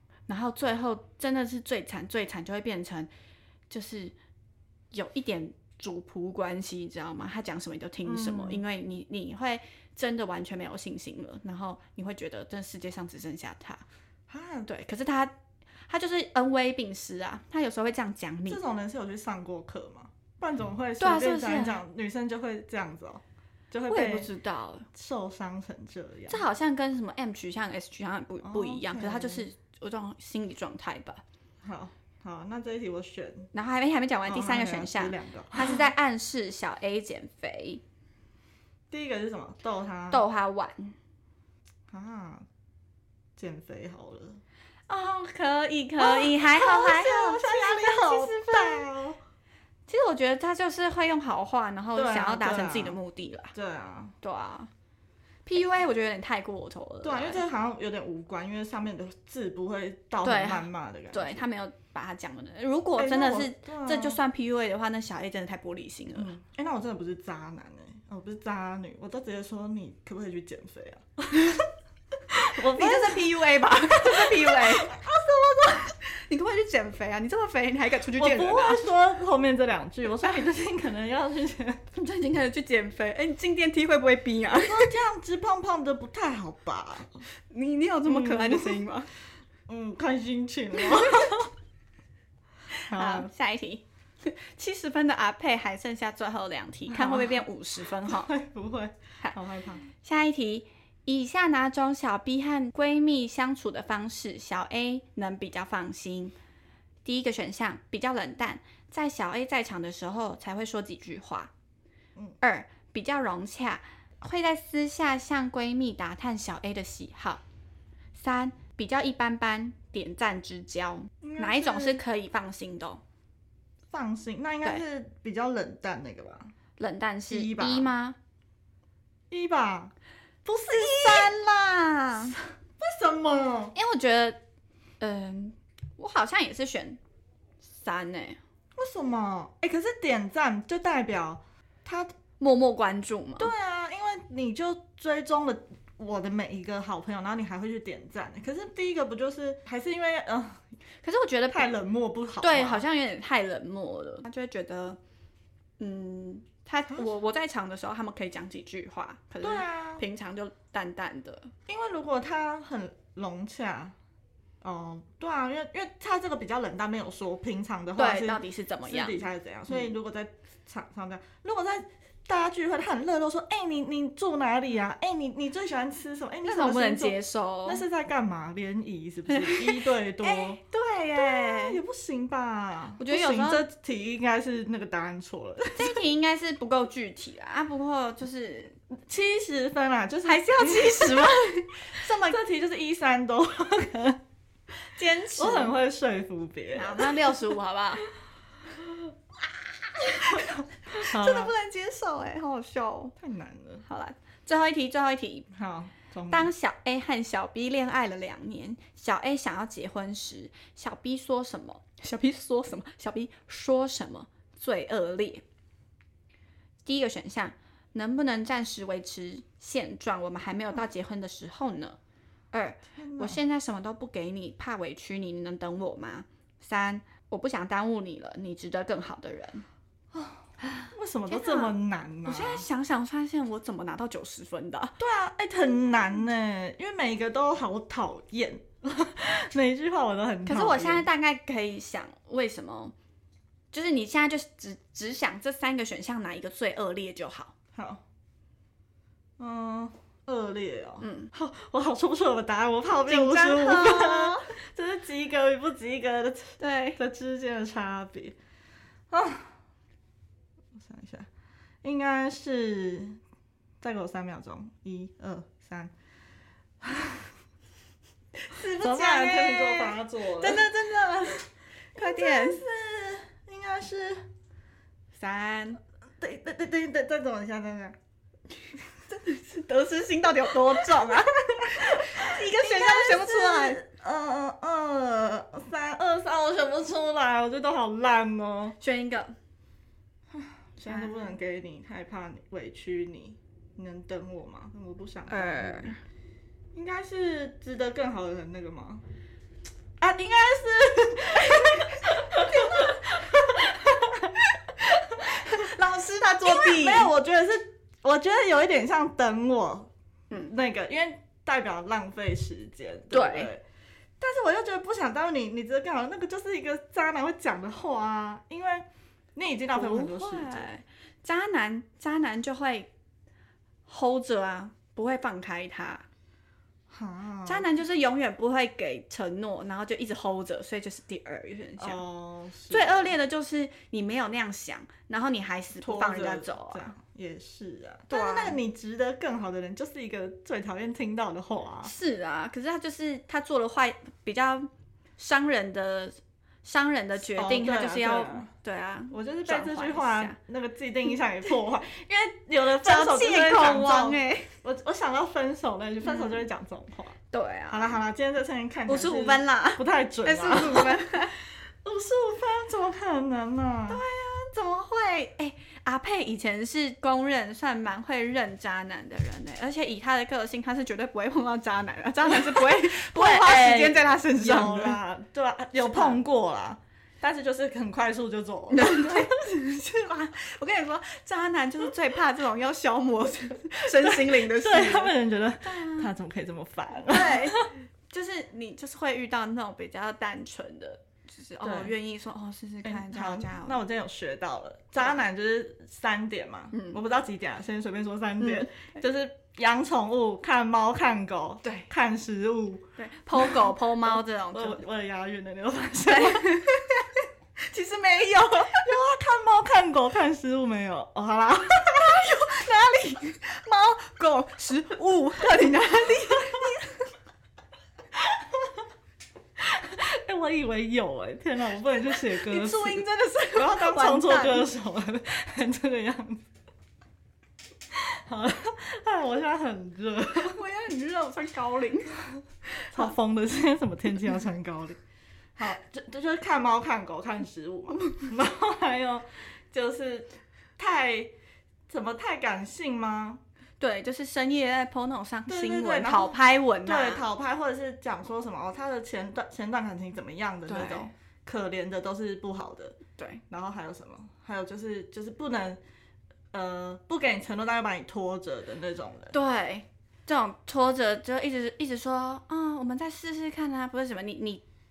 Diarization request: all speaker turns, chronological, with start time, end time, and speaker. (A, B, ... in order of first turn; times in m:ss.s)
0:00.3-0:03.1 A
0:03.7-0:04.1 A
0:04.9-0:13.8 A
0:08.0-0:08.6 B
0:14.3-0:14.7 B
0:14.6-0:15.3 A
0:15.9-0:18.6 A
0:18.5-0:24.3 B
0:21.0-0:21.8 A
0:23.9-0:24.9 A
0:24.9-0:26.4 B
0:26.3-0:31.2 A
0:28.4-0:29.5 B
0:31.6-0:33.5 B
0:33.5-0:37.8 A
0:34.3-0:35.9 B
0:38.9-0:40.2 B
0:40.1-0:41.0 A
0:41.9-0:42.4 B
0:43.4-0:44.4 B
0:44.9-0:48.9 A
0:46.0-0:49.2 B
0:49.9-0:53.5 A
0:51.9-0:53.0 B
0:53.5-0:54.2 B
0:54.2-0:54.7 A
0:55.4-0:57.4 A
0:57.0-1:01.4 B
1:00.2-1:06.3 A
1:03.0-1:04.2 B
1:06.2-1:11.7 B
1:12.3-1:15.9 B
1:12.6-1:18.8 A
1:18.2-1:21.8 B
1:21.9-1:24.9 A
1:24.6-1:27.2 B
1:27.5-1:29.1 A
1:28.0-1:28.8 B
1:29.7-1:31.5 B
1:31.0-1:31.3 A
1:32.7-1:38.3 A
1:32.9-1:33.3 B
1:36.9-1:37.4 B
1:38.0-1:39.8 B
1:39.9-1:46.3 A
1:47.0-1:51.5 A
1:52.4-1:57.4 A
1:58.1-2:03.0 A
2:01.2-2:02.0 B
2:03.9-2:06.5 B
2:06.8-2:08.2 A
2:07.3-2:07.9 B
2:09.3-2:09.9 B
2:10.4-2:11.3 B
2:10.6-2:12.4 A
2:12.8-2:13.7 B
2:13.7-2:14.4 A
2:15.0-2:17.0 A
2:17.7-2:18.4 A
2:18.8-2:22.1 B
2:22.4-2:23.5 A
2:23.4-2:30.6 B
2:31.0-2:31.7 A
2:31.5-2:32.8 B
2:32.4-2:35.0 A
2:35.8-2:41.5 A
2:39.4-2:40.0 B
2:41.7-2:43.9 B
2:44.6-3:00.6 B
2:48.0-2:49.9 A
2:56.4-2:57.8 A
2:59.3-3:01.8 A
3:01.2-3:06.0 B
3:03.0-3:03.6 A
3:05.8-3:08.8 A
3:09.1-3:11.4 B
3:10.2-3:12.4 A
3:12.1-3:14.2 B
3:14.9-3:15.7 A
3:15.4-3:17.3 B
3:16.7-3:18.0 A
3:20.0-3:23.1 A
3:20.2-3:21.5 B
3:23.2-3:23.8 B
3:23.8-3:25.5 A
3:25.5-3:26.5 B
3:26.3-3:35.4 A
3:36.8-3:42.0 A
3:42.5-3:49.6 A
3:43.0-3:43.4 B
3:50.1-3:50.4 B
3:50.6-3:55.0 A
3:50.9-3:52.6 B
3:55.0-4:01.1 B
4:00.4-4:02.9 A
4:03.7-4:07.5 A
4:07.7-4:08.0 B
4:09.4-4:18.4 B
4:11.0-4:11.3 A
4:13.0-4:14.5 A
4:16.6-4:17.0 A
4:19.1-4:19.5 B
4:20.7-4:21.3 B
4:21.8-4:23.2 B
4:23.8-4:25.9 B
4:26.8-4:27.3 B
4:28.4-4:32.6 A
4:28.5-4:30.6 B
4:32.0-4:34.3 B
4:35.1-4:35.8 A
4:36.2-4:38.0 B
4:39.1-4:43.8 A
4:40.7-4:48.8 B
4:48.8-4:49.3 A
4:50.3-4:55.9 B
4:50.8-4:51.3 A
4:55.3-4:56.0 A
4:56.7-4:59.0 B
5:00.0-5:05.7 B
5:01.5-5:03.4 A
5:05.2-5:07.1 A
5:06.4-5:13.6 B
5:13.1-5:13.5 A
5:14.2-5:20.7 B
5:19.7-5:22.9 A
5:23.9-5:26.0 A
5:26.9-5:27.7 B
5:27.4-5:32.0 A
5:31.8-5:33.1 B
5:32.7-5:36.9 A
5:35.8-5:41.9 B
5:38.1-5:38.6 A
5:41.8-5:50.4 A
5:47.3-5:48.5 B
5:49.1-5:57.2 B
5:52.8-5:54.5 A
5:57.3-5:58.0 A
5:57.7-6:04.0 B
5:58.9-6:01.3 A
6:03.9-6:15.0 A
6:12.3-6:19.4 B
6:15.8-6:16.2 A
6:18.7-6:26.1 A
6:23.8-6:27.7 B
6:27.1-6:33.8 A
6:31.6-6:31.9 B
6:32.8-6:46.8 B
6:36.7-6:37.0 A
6:38.4-6:38.7 A
6:41.6-6:41.9 A
6:43.0-6:44.8 A
6:46.1-6:48.9 A
6:48.6-6:52.2 B
6:51.8-6:57.1 A
6:56.3-6:56.6 B
6:58.3-6:58.7 B
6:59.6-7:06.4 B
7:02.3-7:04.7 A
7:07.9-7:10.6 B
7:10.4-7:12.2 A
7:12.9-7:15.0 B
7:15.6-7:21.3 B
7:21.9-7:23.4 B
7:23.8-7:27.2 A
7:25.5-7:33.0 B
7:30.7-7:31.1 A
7:33.2-7:33.4 A
7:33.5-7:35.8 B
7:36.5-7:39.3 B
7:39.3-7:44.6 A